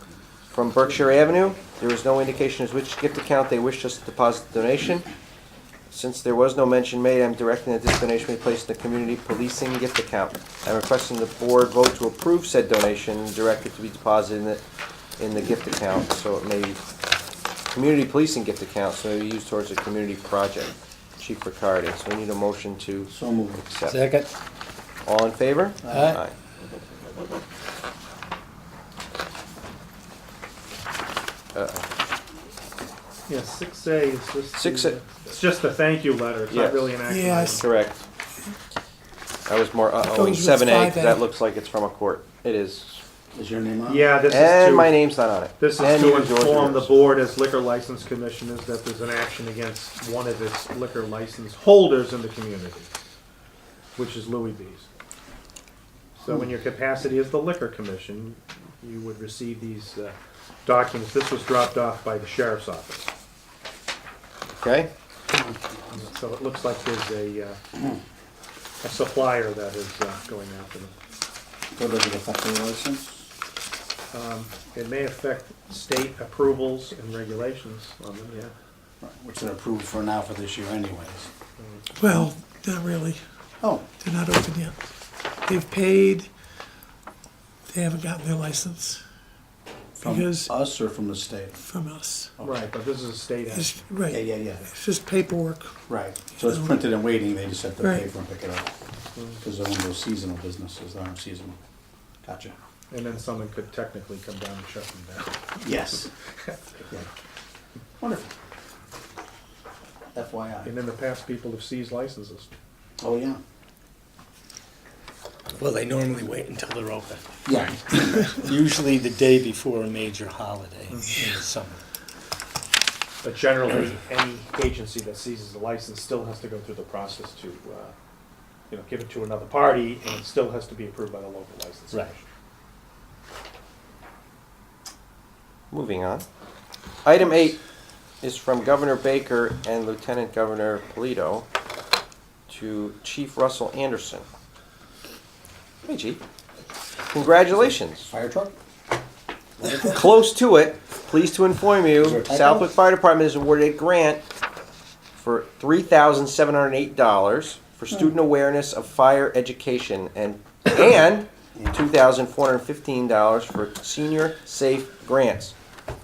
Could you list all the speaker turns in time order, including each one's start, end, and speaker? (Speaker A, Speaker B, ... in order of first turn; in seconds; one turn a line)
Speaker A: 0.5-5.1
Speaker A: 5.9-14.6
Speaker A: 15.2-16.8
Speaker A: 17.7-23.1
Speaker B: 23.1-23.7
Speaker A: 23.6-24.0
Speaker C: 23.9-24.3
Speaker A: 25.1-26.3
Speaker C: 25.9-26.2
Speaker A: 31.5-31.9
Speaker D: 33.3-37.6
Speaker A: 34.5-35.0
Speaker A: 36.5-36.9
Speaker E: 37.1-37.7
Speaker A: 37.5-38.0
Speaker A: 39.5-43.0
Speaker E: 40.1-41.2
Speaker B: 43.3-44.1
Speaker D: 43.9-52.9
Speaker A: 44.3-46.9
Speaker D: 54.0-54.9
Speaker D: 56.2-63.1
Speaker A: 64.5-64.9
Speaker D: 65.9-67.6
Speaker D: 68.8-71.0
Speaker B: 71.8-73.3
Speaker D: 74.1-78.5
Speaker B: 79.0-81.3
Speaker D: 81.6-81.9
Speaker E: 82.0-83.2
Speaker E: 84.0-84.8
Speaker E: 85.4-86.3
Speaker E: 87.7-89.0
Speaker B: 90.0-91.6
Speaker E: 90.0-90.5
Speaker E: 91.6-92.3
Speaker B: 92.4-92.7
Speaker D: 92.4-93.8
Speaker E: 93.5-95.8
Speaker B: 94.1-94.7
Speaker B: 95.9-98.7
Speaker D: 99.2-99.4
Speaker B: 99.4-101.6
Speaker B: 102.2-102.5
Speaker D: 102.9-105.6
Speaker B: 105.6-106.1
Speaker D: 106.4-106.9
Speaker B: 108.0-108.4
Speaker B: 110.1-110.7
Speaker D: 110.7-112.5
Speaker B: 113.0-113.4
Speaker C: 115.6-117.2
Speaker B: 117.5-118.4
Speaker C: 117.9-121.8
Speaker D: 120.9-121.2
Speaker D: 123.2-127.9
Speaker D: 128.7-132.2
Speaker A: 135.7-136.2
Speaker A: 137.1-137.6
Speaker A: 138.2-141.5
Speaker A: 142.5-144.2
Speaker A: 145.9-146.2
Speaker A: 147.1-148.1
Speaker B: 148.1-148.6
Speaker B: 149.6-150.0
Speaker A: 149.7-154.2
Speaker B: 152.0-152.7
Speaker A: 155.2-165.5